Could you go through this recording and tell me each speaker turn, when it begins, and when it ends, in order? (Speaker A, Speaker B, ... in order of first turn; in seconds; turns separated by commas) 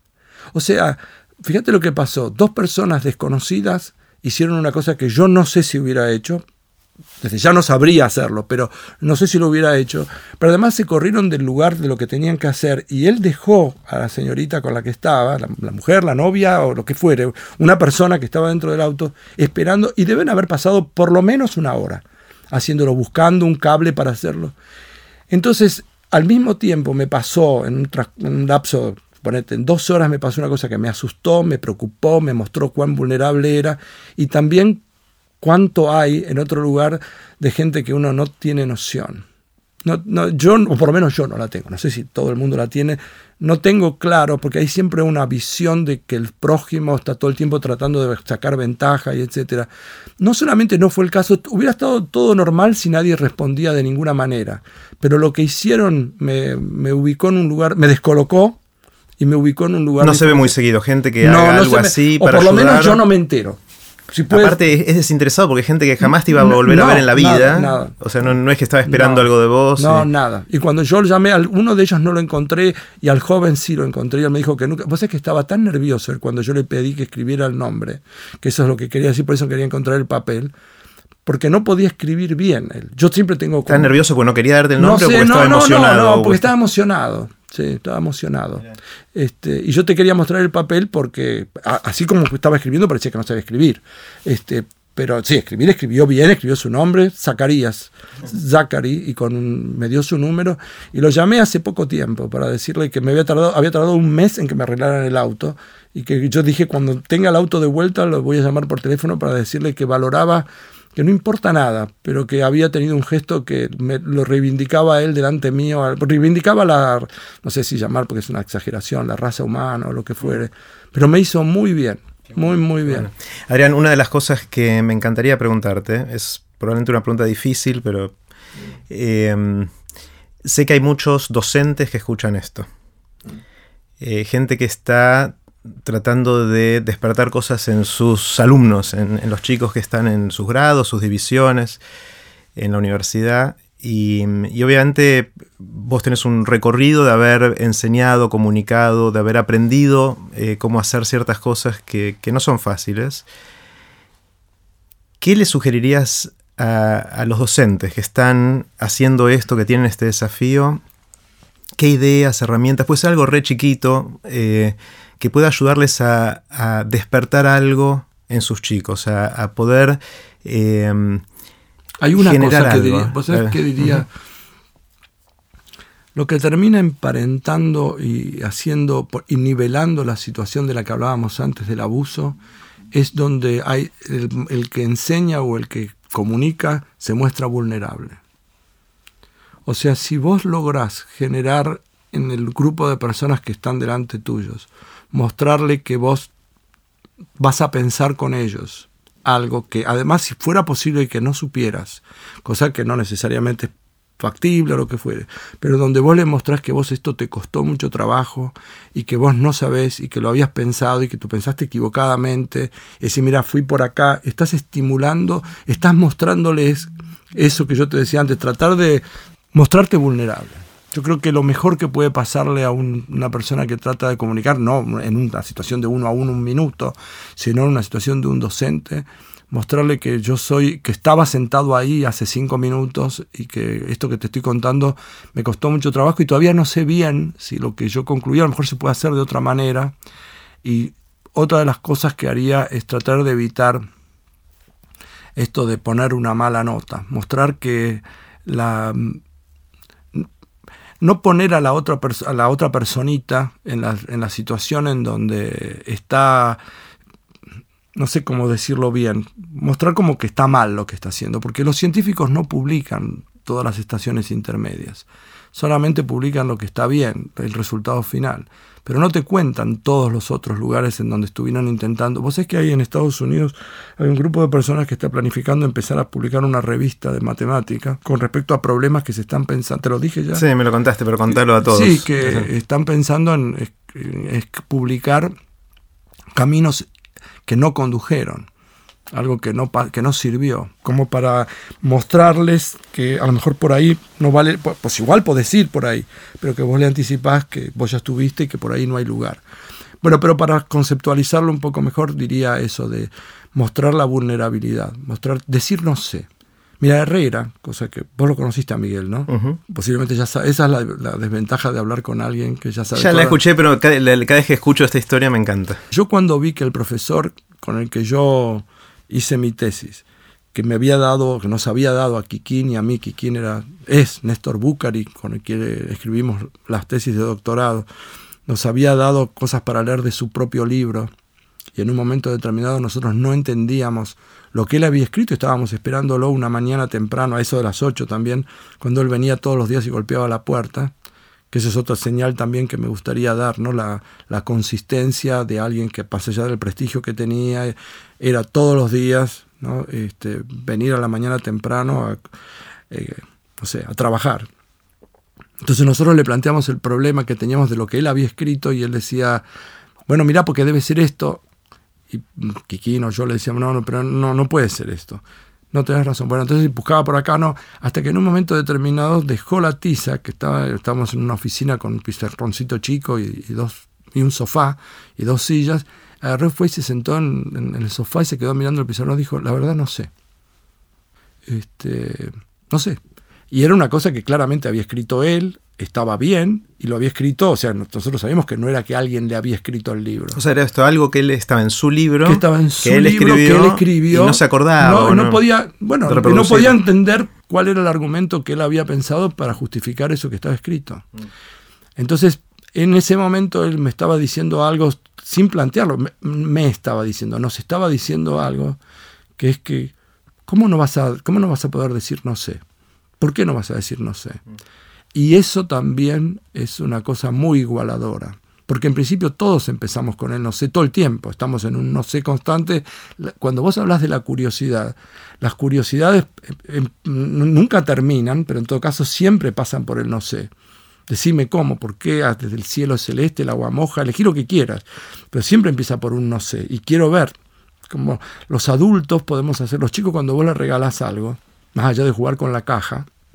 Speaker A: 0.5-6.4, Speaker A: 7.2-24.5, Speaker A: 25.3-34.8, Speaker A: 35.4-39.2, Speaker A: 39.8-49.7, Speaker A: 50.2-58.6, Speaker A: 59.2-60.5, Speaker B: 60.0-63.0, Speaker A: 61.2-64.6, Speaker B: 64.3-70.1, Speaker A: 66.0-68.0, Speaker A: 68.8-80.5, Speaker A: 81.2-83.9, Speaker B: 83.7-86.4, Speaker A: 84.8-123.1, Speaker B: 123.5-128.1, Speaker B: 128.9-129.7, Speaker B: 130.4-132.7, Speaker B: 134.0-141.8, Speaker B: 142.6-153.2, Speaker B: 155.2-160.8, Speaker B: 161.8-171.2, Speaker A: 172.0-174.1, Speaker B: 172.2-174.0, Speaker A: 176.1-182.4, Speaker A: 182.9-188.2, Speaker A: 189.7-196.3, Speaker A: 197.4-239.9, Speaker A: 240.6-243.8, Speaker A: 245.3-249.2, Speaker A: 251.0-256.6, Speaker A: 257.9-280.4, Speaker B: 280.3-282.5, Speaker A: 281.3-285.3, Speaker A: 286.3-286.9, Speaker A: 287.5-288.5, Speaker A: 289.1-299.4, Speaker A: 300.0-306.3, Speaker A: 306.8-313.4, Speaker B: 309.3-309.6, Speaker B: 312.9-315.8, Speaker A: 315.9-327.9, Speaker A: 328.5-331.1, Speaker A: 331.8-340.9, Speaker A: 341.5-352.2, Speaker A: 352.9-354.5, Speaker A: 355.6-359.4, Speaker A: 360.1-361.4, Speaker A: 362.1-380.1, Speaker A: 381.4-383.0, Speaker A: 383.5-390.4, Speaker B: 390.3-395.4, Speaker A: 392.2-401.0, Speaker B: 396.1-396.8, Speaker A: 402.0-408.8, Speaker A: 409.4-409.9, Speaker A: 410.5-412.6, Speaker A: 413.2-414.4, Speaker A: 415.1-430.5, Speaker A: 431.1-437.3, Speaker A: 437.9-443.1